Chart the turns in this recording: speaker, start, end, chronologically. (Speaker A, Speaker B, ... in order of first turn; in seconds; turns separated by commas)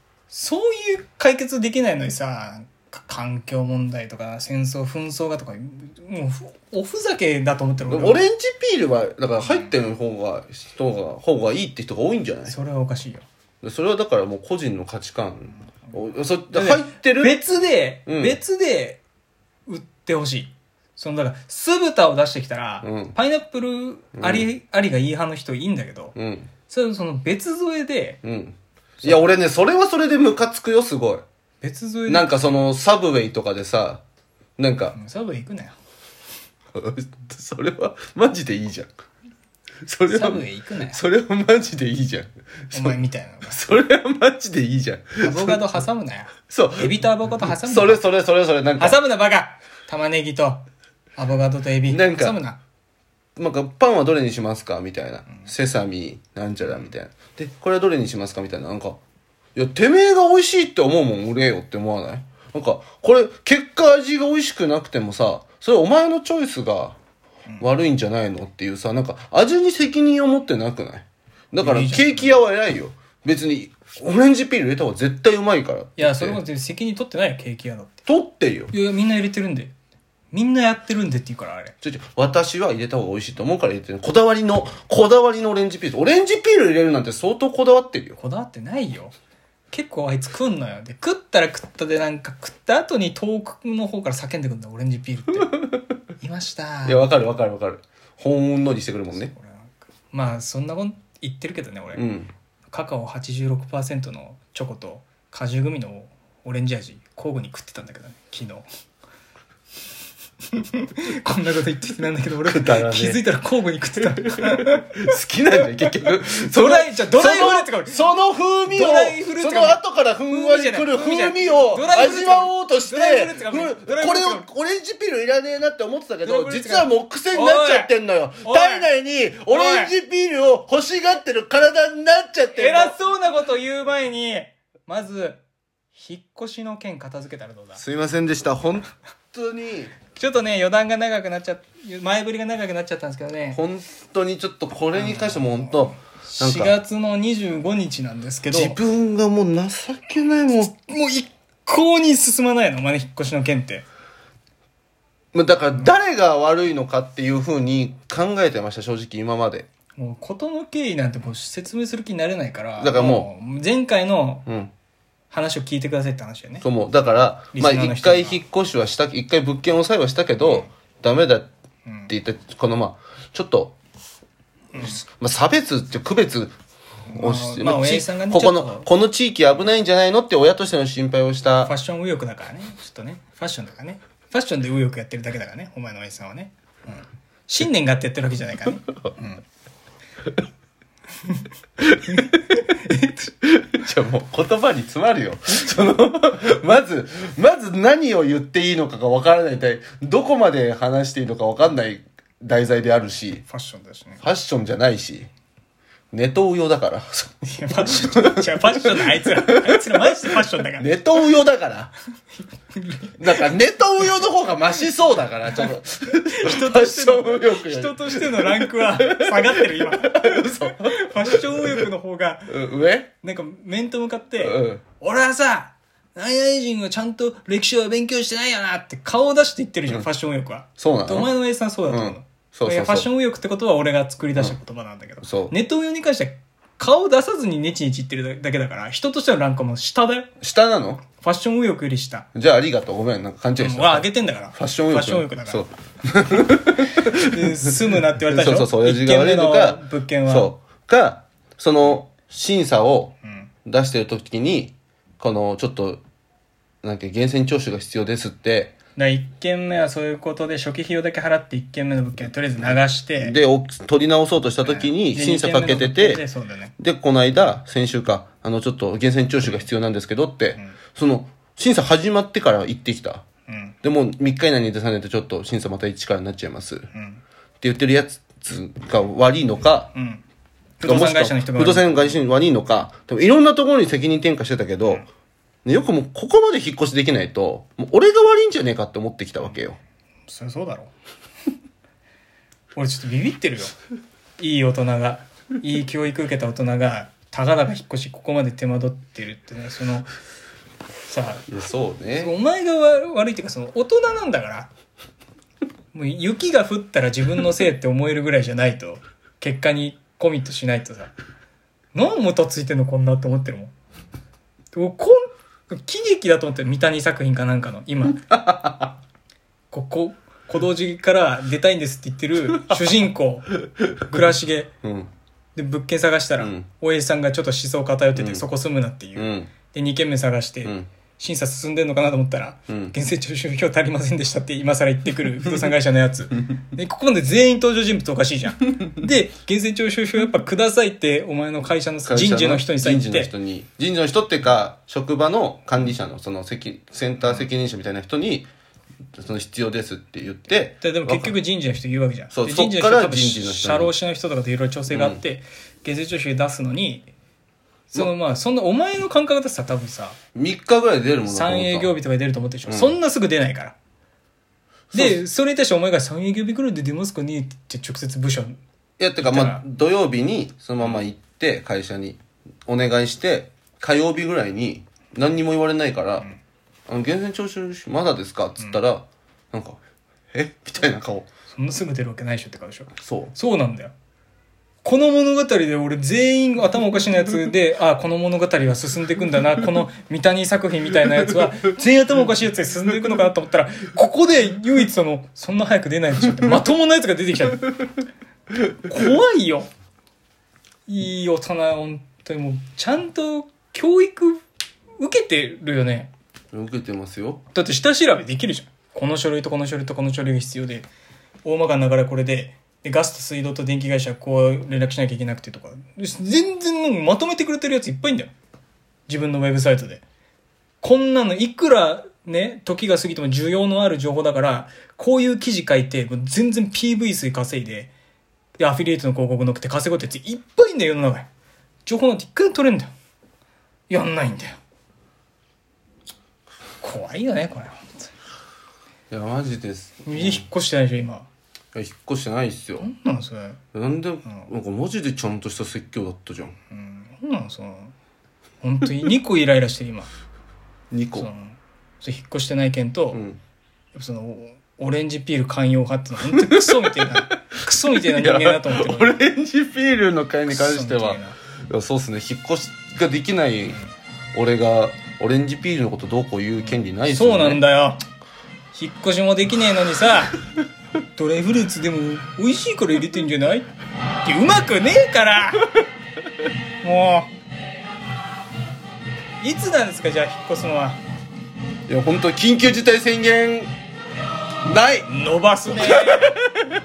Speaker A: 0.3-8.2, Speaker B: 7.9-12.6, Speaker A: 12.5-13.2, Speaker B: 13.6-17.4, Speaker A: 16.5-19.0, Speaker B: 18.1-18.4, Speaker A: 19.7-26.1, Speaker B: 22.8-23.2, Speaker B: 24.2-24.5, Speaker B: 26.1-26.5, Speaker A: 26.7-28.2, Speaker B: 28.2-31.2, Speaker A: 29.0-29.3, Speaker A: 31.6-32.3, Speaker B: 32.1-34.0, Speaker B: 34.6-35.0, Speaker A: 34.9-35.8, Speaker B: 36.8-38.9, Speaker B: 39.8-45.6, Speaker A: 40.1-41.0, Speaker A: 42.7-43.6, Speaker A: 45.2-48.0, Speaker B: 46.5-47.0, Speaker B: 47.5-49.0, Speaker A: 48.8-50.6, Speaker A: 51.2-52.6, Speaker B: 51.9-52.4, Speaker B: 53.4-59.0, Speaker B: 59.6-67.0, Speaker B: 67.6-76.4, Speaker A: 71.6-72.4, Speaker A: 76.0-78.0, Speaker B: 78.1-78.7, Speaker A: 78.7-79.7, Speaker A: 80.3-81.7, Speaker B: 81.8-88.2, Speaker A: 88.2-89.1, Speaker A: 89.7-95.6, Speaker A: 96.2-97.2, Speaker B: 96.9-99.3, Speaker A: 99.1-102.0, Speaker B: 102.0-102.3, Speaker A: 102.7-108.7, Speaker A: 110.5-115.0, Speaker B: 112.5-113.2, Speaker B: 114.3-133.0, Speaker A: 116.3-118.1, Speaker A: 118.7-124.5, Speaker A: 126.2-127.9, Speaker A: 128.4-128.9, Speaker A: 129.5-129.9, Speaker A: 132.5-135.4, Speaker A: 135.9-137.8, Speaker B: 137.8-139.9, Speaker A: 140.1-143.6, Speaker B: 143.5-146.8, Speaker A: 144.9-148.8, Speaker B: 148.5-150.7, Speaker A: 150.6-153.8, Speaker B: 155.3-159.7, Speaker A: 160.0-164.5, Speaker B: 162.8-163.3, Speaker B: 164.5-164.7, Speaker A: 165.3-166.7, Speaker B: 166.6-171.5, Speaker A: 167.5-168.4, Speaker A: 170.4-170.7, Speaker B: 172.1-173.8, Speaker A: 174.7-175.0, Speaker B: 174.8-176.6, Speaker A: 177.1-178.9, Speaker B: 177.1-181.7, Speaker A: 181.6-189.4, Speaker A: 192.1-193.3, Speaker B: 193.4-203.4, Speaker A: 203.5-204.2, Speaker B: 204.2-205.3, Speaker B: 206.1-209.9, Speaker A: 207.4-211.0, Speaker B: 210.8-211.9, Speaker A: 212.8-213.5, Speaker B: 213.2-221.8, Speaker A: 215.3-222.5, Speaker B: 222.5-223.1, Speaker A: 223.2-240.3, Speaker B: 224.4-224.8, Speaker B: 230.8-231.3, Speaker B: 231.9-233.1, Speaker B: 235.2-235.5, Speaker B: 240.4-241.0, Speaker A: 241.2-242.3, Speaker B: 242.3-247.3, Speaker A: 243.6-245.7, Speaker A: 247.0-250.5, Speaker B: 248.3-253.2, Speaker B: 253.7-256.0, Speaker B: 256.8-258.7, Speaker A: 259.0-263.4, Speaker B: 262.7-266.2, Speaker A: 264.6-266.7, Speaker B: 266.8-273.2, Speaker A: 273.5-273.8, Speaker B: 273.8-276.9, Speaker A: 276.9-277.2, Speaker B: 277.6-279.9, Speaker A: 279.9-280.2, Speaker A: 280.8-282.2, Speaker B: 280.8-285.1, Speaker B: 285.6-289.8, Speaker A: 290.3-290.9, Speaker A: 292.8-293.8, Speaker A: 294.4-300.1, Speaker A: 301.1-301.5, Speaker B: 301.5-302.3, Speaker A: 302.1-304.7, Speaker A: 305.9-311.1, Speaker A: 311.9-313.7, Speaker A: 314.7-318.4, Speaker B: 318.4-318.9, Speaker A: 319.7-324.7, Speaker B: 324.8-325.1, Speaker A: 325.6-343.3, Speaker B: 326.4-326.7, Speaker B: 328.2-328.4, Speaker B: 329.2-329.5, Speaker B: 330.6-330.9, Speaker B: 342.1-348.5, Speaker B: 349.2-351.4, Speaker A: 350.8-357.1, Speaker B: 352.3-353.9, Speaker B: 354.9-355.2, Speaker A: 357.9-360.2, Speaker B: 360.4-361.9, Speaker A: 361.3-363.8, Speaker B: 362.7-362.9, Speaker B: 364.9-365.2, Speaker A: 364.9-368.6, Speaker B: 369.0-376.3, Speaker A: 369.2-369.6, Speaker B: 376.9-379.8, Speaker B: 380.3-381.3, Speaker A: 381.5-383.9, Speaker B: 383.0-383.3, Speaker A: 384.8-397.8, Speaker A: 398.8-399.7, Speaker A: 400.9-404.4, Speaker A: 405.0-406.1, Speaker B: 406.5-407.4, Speaker A: 407.5-410.9, Speaker A: 411.4-418.3, Speaker A: 419.1-420.0, Speaker A: 420.8-427.9, Speaker A: 428.6-431.3, Speaker A: 431.9-432.9, Speaker A: 433.9-434.6, Speaker A: 436.8-438.1, Speaker B: 439.1-440.5, Speaker A: 440.1-441.3, Speaker B: 441.7-442.9, Speaker A: 442.8-443.6, Speaker B: 443.7-446.6, Speaker A: 446.7-447.9, Speaker A: 448.6-450.1, Speaker B: 450.9-451.3, Speaker A: 451.2-453.2, Speaker B: 453.1-453.4, Speaker A: 453.9-459.2, Speaker B: 456.6-457.0, Speaker B: 457.6-463.8, Speaker A: 460.5-461.4, Speaker B: 464.3-467.6, Speaker A: 466.6-468.0, Speaker A: 468.7-470.3, Speaker A: 471.2-473.7, Speaker A: 474.2-475.6, Speaker A: 476.8-477.3, Speaker A: 479.4-481.0, Speaker B: 481.9-483.7, Speaker B: 484.6-485.1, Speaker A: 485.1-486.4, Speaker B: 485.7-486.6